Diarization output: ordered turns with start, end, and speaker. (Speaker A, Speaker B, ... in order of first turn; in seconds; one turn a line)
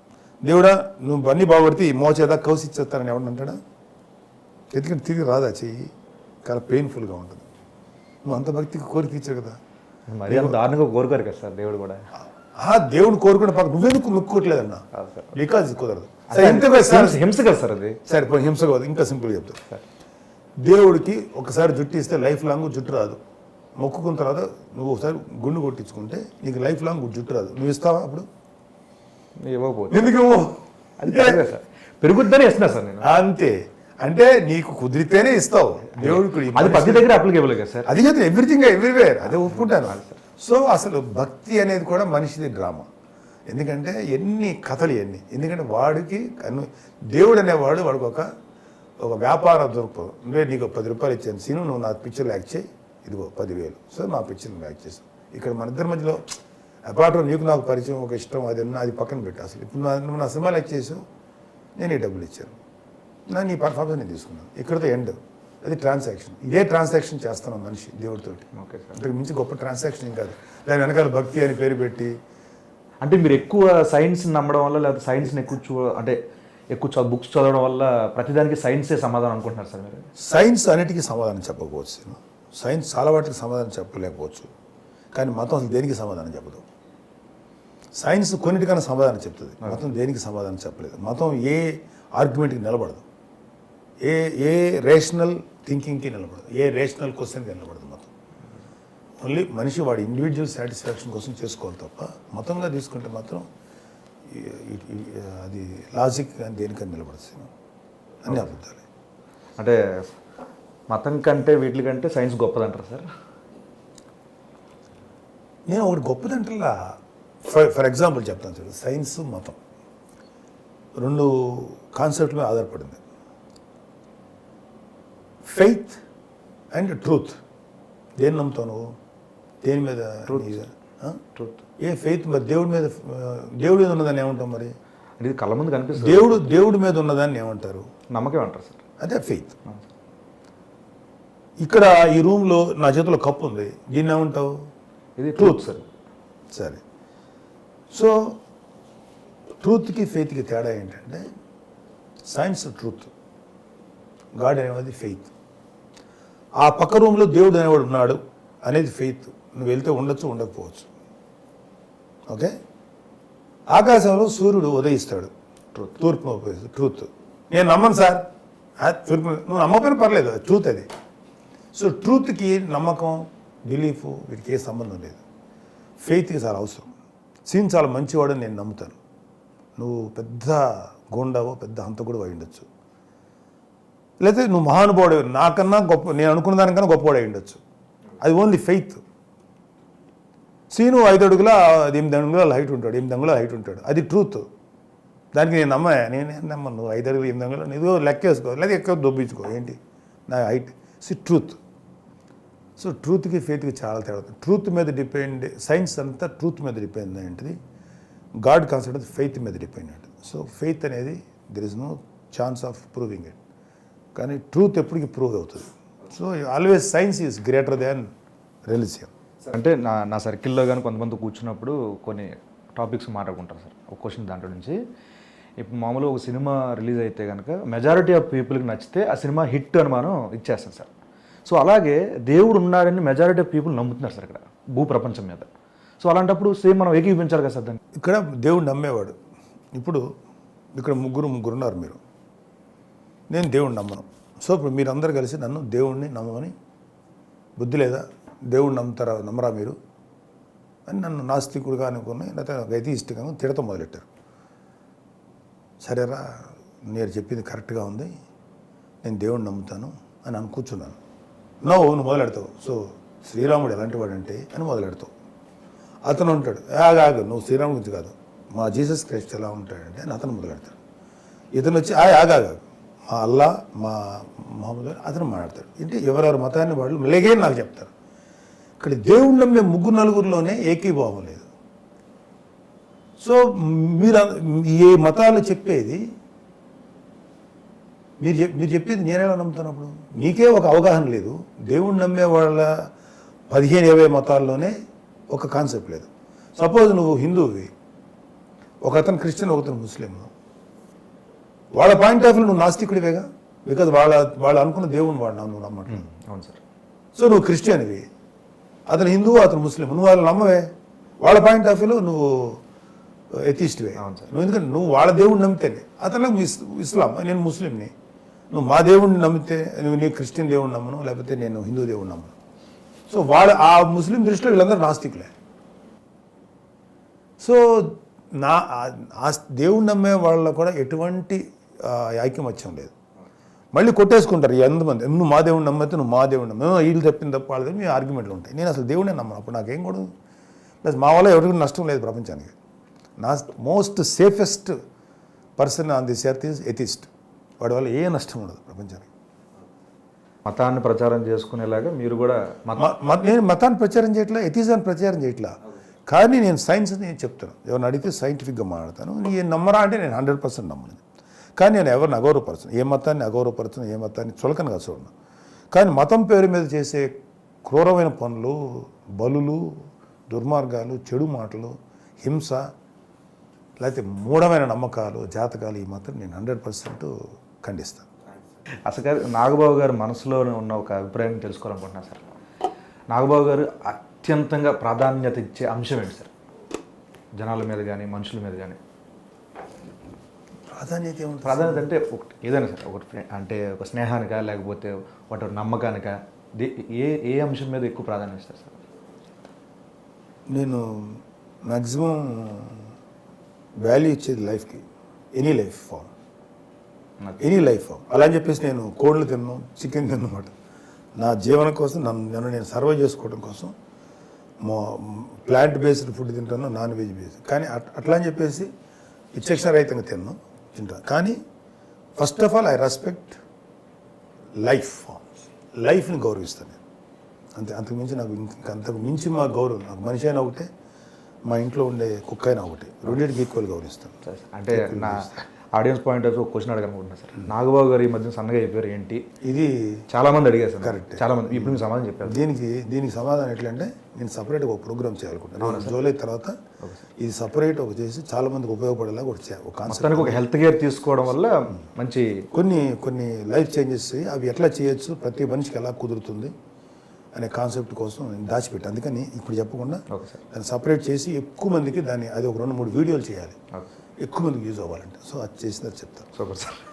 Speaker A: 0.4-3.6
Speaker A: 4.7-5.9
Speaker A: 6.5-7.5
Speaker A: 8.2-9.6
Speaker B: 10.1-12.0
Speaker A: 10.3-10.6
Speaker A: 12.6-17.2
Speaker B: 15.0-15.3
Speaker B: 16.3-18.0
Speaker A: 18.1-19.6
Speaker A: 20.6-23.2
Speaker A: 23.8-28.3
Speaker B: 29.4-30.1
Speaker A: 29.9-31.4
Speaker B: 31.0-33.1
Speaker A: 33.0-37.3
Speaker B: 36.0-37.9
Speaker A: 37.9-42.9
Speaker B: 39.4-40.2
Speaker A: 43.5-48.3
Speaker A: 49.0-56.2
Speaker A: 56.9-61.0
Speaker A: 61.8-62.5
Speaker A: 63.3-72.2
Speaker B: 68.5-69.0
Speaker B: 73.0-76.2
Speaker B: 76.7-80.1
Speaker A: 80.2-84.5
Speaker A: 85.1-86.6
Speaker A: 88.0-93.0
Speaker A: 94.0-98.1
Speaker A: 99.2-103.5
Speaker A: 104.3-107.5
Speaker A: 108.2-108.8
Speaker B: 109.6-110.1
Speaker B: 110.9-113.1
Speaker A: 115.7-119.6
Speaker A: 121.0-123.0
Speaker A: 125.4-126.0
Speaker A: 126.7-127.4
Speaker A: 128.2-128.9
Speaker A: 129.6-131.2
Speaker B: 130.3-130.6
Speaker B: 131.3-131.6
Speaker A: 131.8-134.7
Speaker B: 135.2-136.5
Speaker A: 136.0-137.8
Speaker B: 138.1-138.8
Speaker A: 139.0-139.6
Speaker A: 141.6-144.5
Speaker B: 145.2-145.9
Speaker A: 145.4-145.7
Speaker A: 146.5-146.8
Speaker A: 147.9-148.4
Speaker A: 149.6-151.3
Speaker A: 152.3-153.1
Speaker A: 154.4-155.3
Speaker A: 156.6-160.9
Speaker A: 163.7-165.3
Speaker A: 165.9-168.2
Speaker A: 168.8-170.9
Speaker A: 171.7-175.2
Speaker A: 176.0-176.9
Speaker A: 177.5-179.0
Speaker A: 179.8-182.7
Speaker A: 184.2-187.6
Speaker A: 188.2-189.0
Speaker A: 190.7-194.5
Speaker A: 195.3-201.6
Speaker A: 202.8-207.6
Speaker A: 208.4-213.4
Speaker A: 214.2-218.1
Speaker A: 218.7-219.1
Speaker B: 219.5-224.8
Speaker B: 225.6-230.9
Speaker B: 231.5-235.5
Speaker B: 236.0-237.8
Speaker A: 237.9-239.2
Speaker A: 239.7-240.0
Speaker A: 240.8-242.0
Speaker A: 243.3-246.5
Speaker A: 247.6-249.8
Speaker A: 250.9-254.1
Speaker A: 255.8-258.1
Speaker A: 259.0-261.0
Speaker A: 261.6-265.1
Speaker A: 266.1-270.8
Speaker A: 271.6-277.9
Speaker A: 278.8-281.5
Speaker A: 283.2-286.0
Speaker A: 288.2-292.8
Speaker A: 293.5-294.7
Speaker A: 295.3-297.7
Speaker A: 298.8-300.3
Speaker A: 301.8-306.1
Speaker B: 305.9-306.6
Speaker A: 307.1-308.1
Speaker A: 308.9-310.7
Speaker A: 311.2-312.6
Speaker A: 313.3-317.9
Speaker B: 314.0-314.3
Speaker A: 318.5-322.3
Speaker A: 323.1-325.3
Speaker A: 327.4-332.9
Speaker A: 333.7-340.1
Speaker A: 340.8-342.5
Speaker A: 343.2-344.8
Speaker A: 345.6-349.1
Speaker B: 350.5-352.9
Speaker A: 352.8-355.6
Speaker A: 356.1-361.0
Speaker A: 361.6-365.1
Speaker A: 365.7-367.1
Speaker A: 367.6-369.7
Speaker A: 370.3-372.6
Speaker A: 373.8-378.1
Speaker B: 378.9-382.2
Speaker B: 383.1-386.3
Speaker B: 387.4-388.8
Speaker A: 390.7-391.9
Speaker B: 391.4-398.8
Speaker A: 400.5-402.9
Speaker A: 403.8-404.8
Speaker A: 405.4-406.1
Speaker A: 407.4-410.5
Speaker A: 411.2-413.7
Speaker A: 414.6-418.7
Speaker A: 419.3-421.4
Speaker A: 422.2-423.4
Speaker A: 424.6-425.3
Speaker A: 425.8-426.8
Speaker A: 427.6-430.7
Speaker A: 431.5-434.2
Speaker B: 434.2-439.2
Speaker A: 434.7-435.4
Speaker A: 439.4-440.0
Speaker B: 440.1-442.4
Speaker A: 440.8-446.6
Speaker B: 445.6-446.0
Speaker A: 447.2-450.4
Speaker B: 449.9-452.4
Speaker A: 452.5-456.5
Speaker A: 457.3-463.6
Speaker B: 460.1-460.4
Speaker A: 464.2-466.3
Speaker B: 466.4-466.8